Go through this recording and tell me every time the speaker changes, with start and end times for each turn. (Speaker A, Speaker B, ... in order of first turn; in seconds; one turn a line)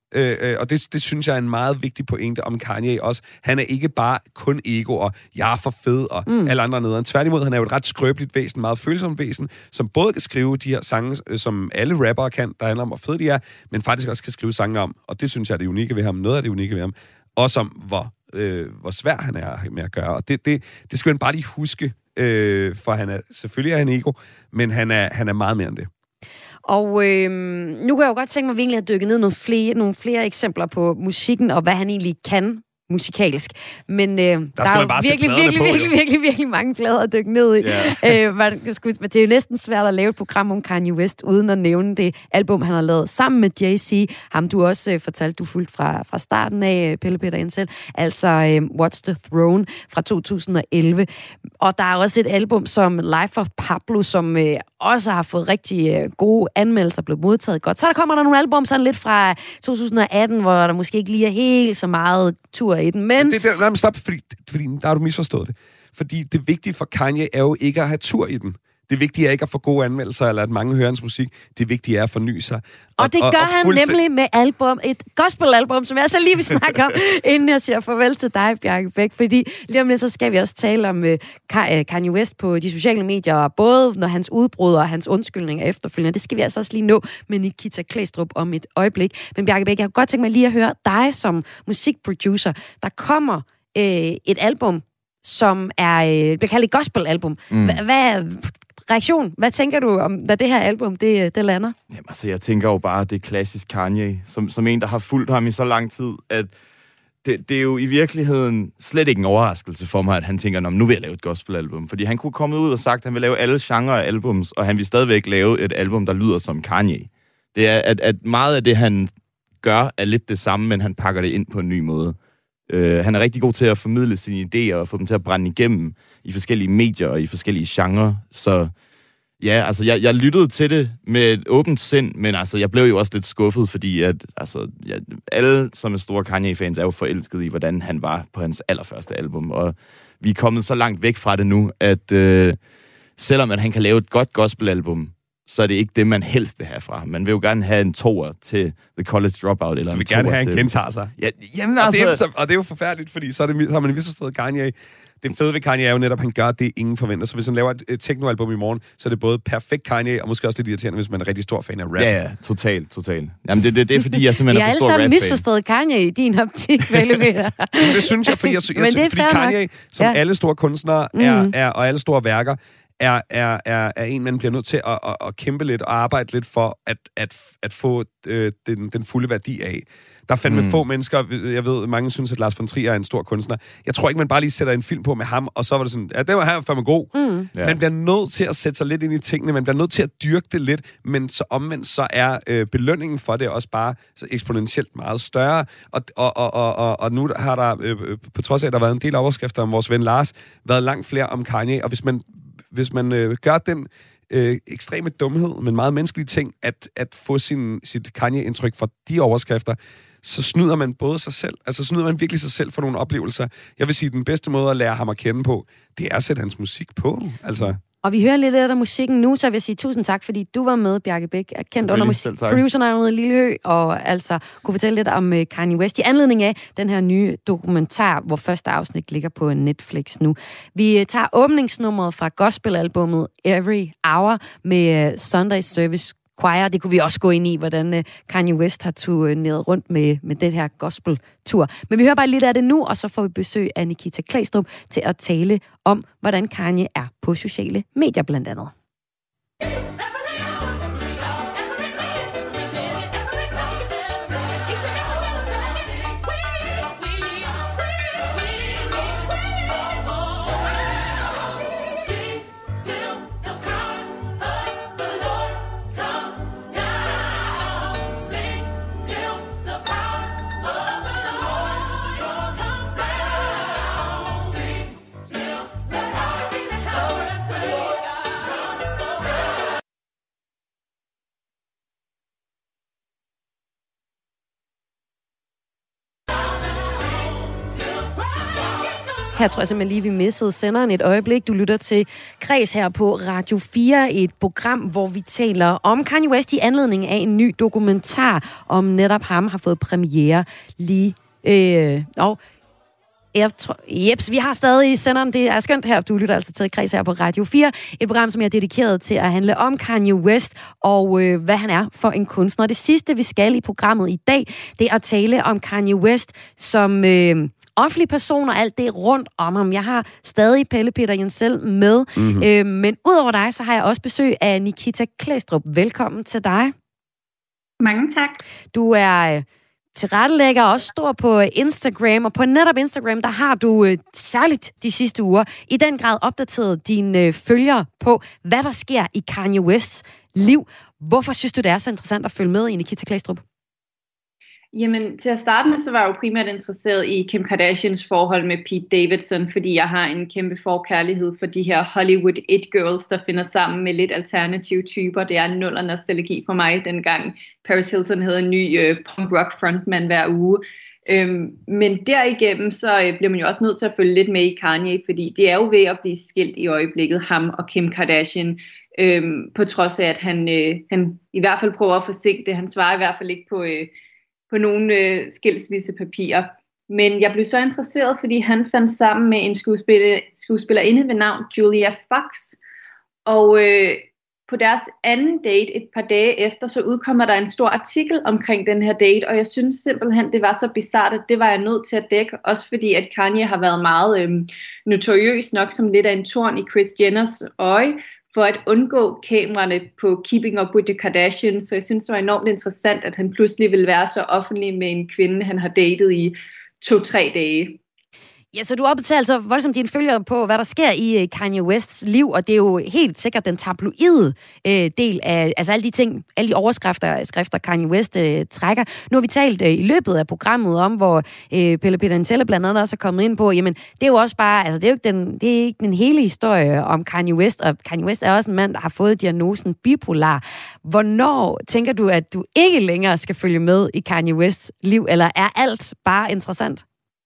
Speaker A: 0.1-25.9
Speaker B: 6.3-6.5
Speaker B: 26.6-51.1
Speaker A: 34.6-35.9
Speaker C: 37.6-38.2
Speaker B: 51.6-63.3
Speaker A: 63.2-74.0
Speaker B: 73.0-101.7
Speaker C: 97.5-97.8
Speaker C: 101.9-106.5
Speaker C: 107.2-122.2
Speaker C: 122.7-128.7
Speaker C: 129.4-142.6
Speaker C: 143.2-152.2
Speaker A: 149.9-151.1
Speaker A: 151.8-162.1
Speaker C: 162.0-165.4
Speaker B: 164.1-170.2
Speaker A: 167.8-217.8
Speaker B: 171.1-171.5
Speaker C: 180.5-180.8
Speaker B: 187.1-187.5
Speaker B: 218.0-248.7
Speaker C: 221.8-222.6
Speaker B: 289.3-302.4
Speaker B: 303.3-326.7
Speaker A: 322.1-322.5
Speaker D: 327.8-328.4
Speaker B: 328.7-343.4
Speaker D: 344.7-373.9
Speaker D: 374.5-382.6
Speaker D: 383.2-407.8
Speaker B: 408.5-436.8